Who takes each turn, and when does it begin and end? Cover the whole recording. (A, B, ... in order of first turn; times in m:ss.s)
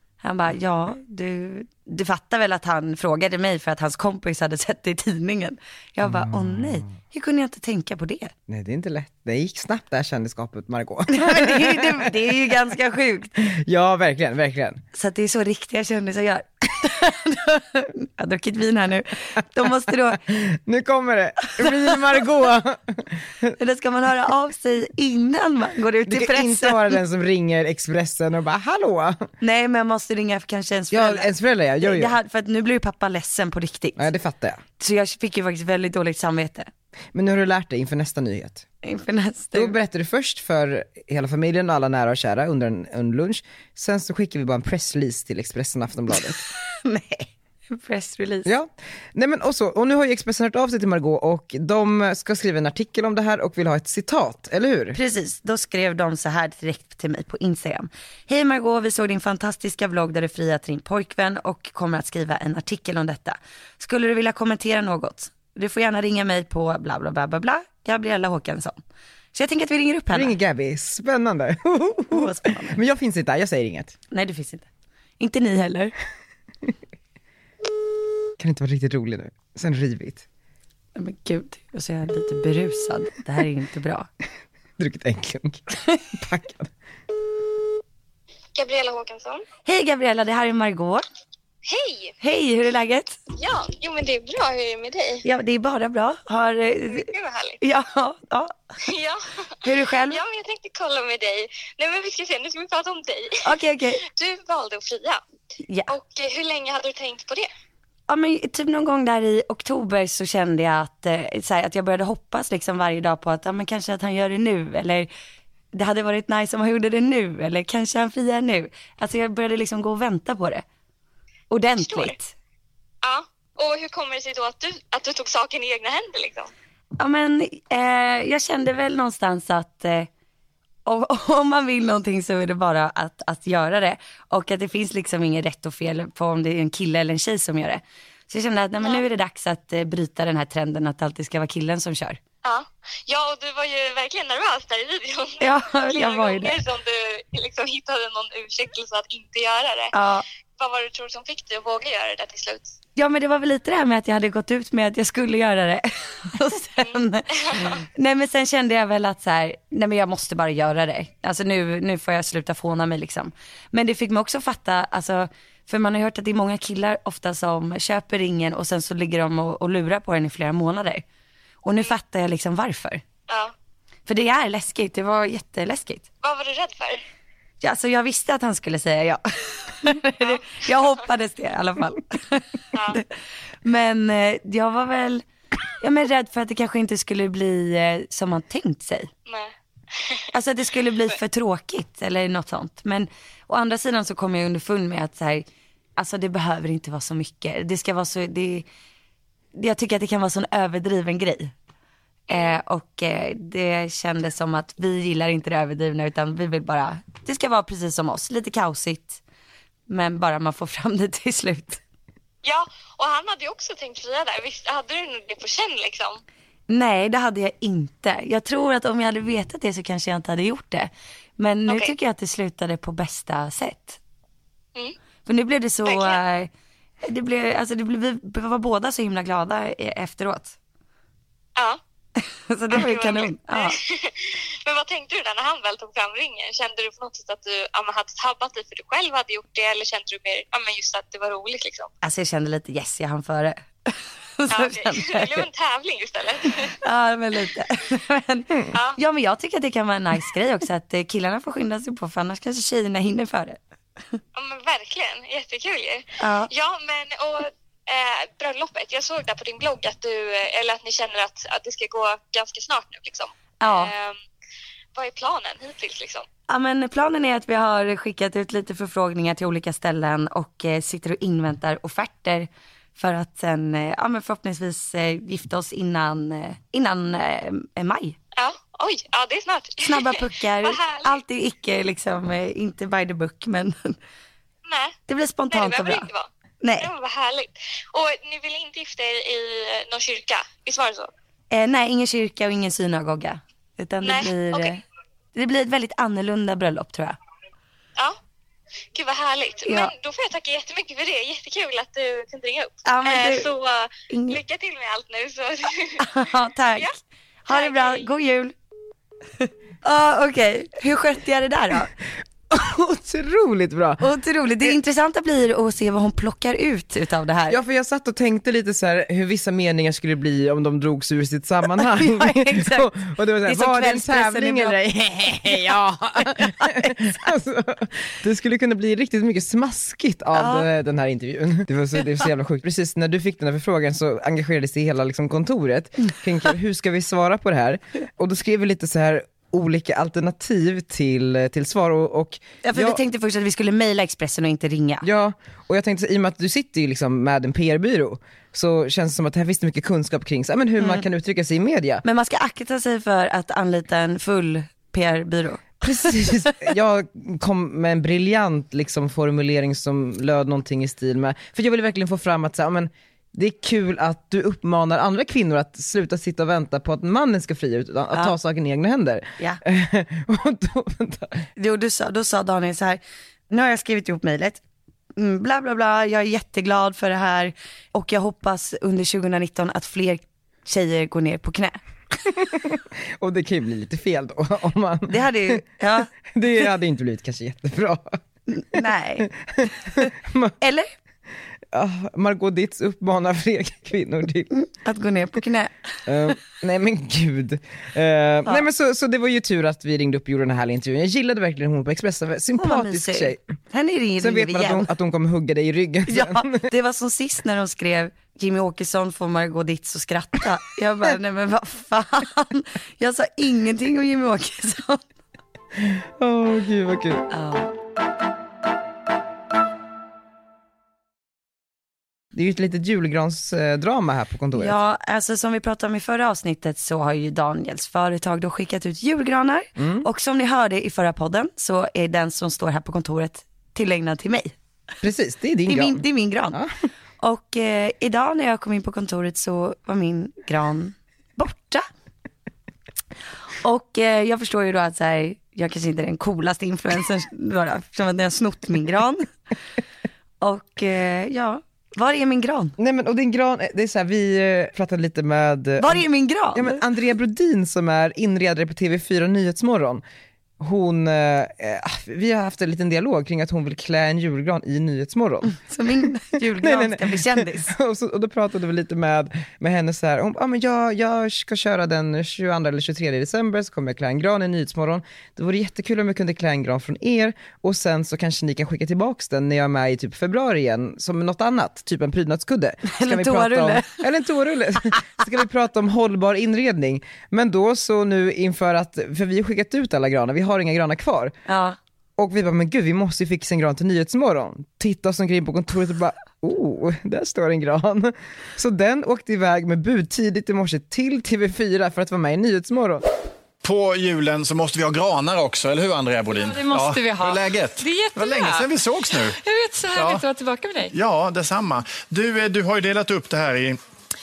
0:00.2-0:08.3 A
0:06.0-0:07.0 B
0:08.5-0:12.6 B
0:11.1-0:13.4 A
0:13.4-0:14.8 B
0:14.9-0:20.2 A
0:20.3-0:23.5 B
0:21.5-0:21.9 A
0:23.6-0:27.0 A
0:26.1-0:29.3 B
0:29.4-0:31.3 A
0:30.9-0:32.2 B
0:31.8-0:34.1 A
0:34.0-0:34.6 B
0:34.8-0:36.7 A
0:37.1-0:38.7 B
0:38.8-0:39.8 A
0:39.5-0:46.5 B
0:46.5-0:48.5 A
0:48.4-0:55.0 B
0:54.9-1:08.8 A
1:09.3-1:10.4 A
1:10.1-1:14.0 B
1:12.1-1:12.8 A
1:14.1-1:14.7 A
1:15.2-1:15.9 A
1:18.4-1:20.2 B
1:21.0-1:24.1 A
1:24.8-1:26.7 B
1:28.6-1:29.4 C
1:29.6-1:31.0 A
1:31.7-1:32.1 C
1:32.2-1:33.2 A
1:33.4-1:35.2 C
1:35.2-1:37.1 A
1:36.9-1:37.6 C
1:37.6-1:38.6 A
1:38.8-1:43.4 C
1:39.6-1:40.2 A
1:43.4-1:44.0 A
1:44.1-1:45.2 C
1:45.9-1:47.5 C
1:48.1-1:55.1 A
1:55.7-2:00.6 A
2:01.5-2:02.3 A
2:01.8-2:02.1 C
2:03.0-2:06.5 C
2:07.0-2:10.1 A
2:10.9-2:22.2 A
2:22.4-2:30.0 C
2:25.4-2:26.6 A
2:29.9-2:30.2 A
2:30.6-2:32.8 C
2:33.0-2:51.0 A
2:37.3-2:37.8 C
2:51.6-2:53.0 A
2:54.1-2:56.1 A
2:56.2-2:57.0 C
2:57.6-3:03.1 A
3:02.7-3:03.0 C
3:03.6-3:05.2 A
3:05.8-3:09.1 A
3:09.3-3:10.2 C
3:10.3-3:15.5 A
3:16.0-3:18.7 A
3:19.6-3:21.5 A
3:22.3-3:29.2 A
3:22.3-3:22.6 C
3:29.9-3:31.8 A
3:32.4-3:36.2 C
3:36.7-3:44.0 A
3:41.7-3:41.9 C
3:45.3-3:46.5 A
3:45.8-3:46.2 C
3:47.0-3:50.6 A
3:52.2-3:53.8 A
3:52.7-4:01.9 C
4:02.0-4:05.5 A
4:04.5-4:06.7 C
4:06.7-4:13.6 A
4:08.7-4:09.0 C
4:14.4-4:24.2 C
4:16.2-4:16.5 A
4:23.6-4:23.9 A
4:25.0-4:26.2 C
4:26.5-4:38.2 A
4:38.4-4:41.2 C
4:39.8-4:44.0 A
4:44.7-4:45.0 C
4:45.1-4:46.1 A
4:45.5-4:51.1 C
4:46.6-4:46.9 A
4:51.5-4:54.8 A
4:54.0-4:54.8 C
4:55.4-4:57.2 A
4:58.9-5:06.0 C
4:59.7-4:59.9 A
5:02.9-5:03.5 A
5:04.1-5:04.4 A
5:06.0-5:08.6 A
5:07.5-5:08.1 C
5:09.4-5:11.9 A
5:12.5-5:14.0 B
5:14.0-5:17.6 A
5:17.5-5:43.0 B
5:21.7-5:22.9 A
5:23.5-5:24.8 A
5:26.4-5:27.0 A
5:30.4-5:30.7 A
5:42.6-5:45.0 A
5:45.0-5:52.0 B
5:52.0-5:56.6 A
5:55.8-6:11.5 B
6:11.6-6:14.6 A
6:15.2-6:22.3 A
6:22.4-6:25.6 B
6:25.1-6:26.1 A
6:26.3-6:28.2 B
6:28.5-6:29.3 A
6:28.8-6:30.5 B
6:29.9-6:30.9 A
6:31.7-6:34.5 B
6:34.5-6:35.7 A
6:36.1-6:43.4 B
6:42.6-6:44.9 A
6:44.2-6:46.7 B
6:46.1-6:55.0 A
6:55.8-6:57.3 B
6:57.3-6:57.7 A
7:02.3-7:04.8 B
7:04.5-7:14.5 A
7:09.8-7:10.1 B
7:15.0-7:16.7 B
7:15.7-7:16.6 A
7:17.2-7:21.8 A
7:23.6-7:29.3 A
7:30.4-7:32.8 A
7:32.8-7:40.0 B
7:35.8-7:36.8 A
7:40.6-7:45.6 B
7:45.6-7:47.7 A
7:46.5-8:11.3 B
8:02.9-8:04.0 A
8:11.5-8:11.8 A
8:12.2-8:23.0 B
8:23.6-8:29.4 D
8:26.3-8:30.9 E
8:29.9-8:30.2 D
8:30.9-8:33.8 D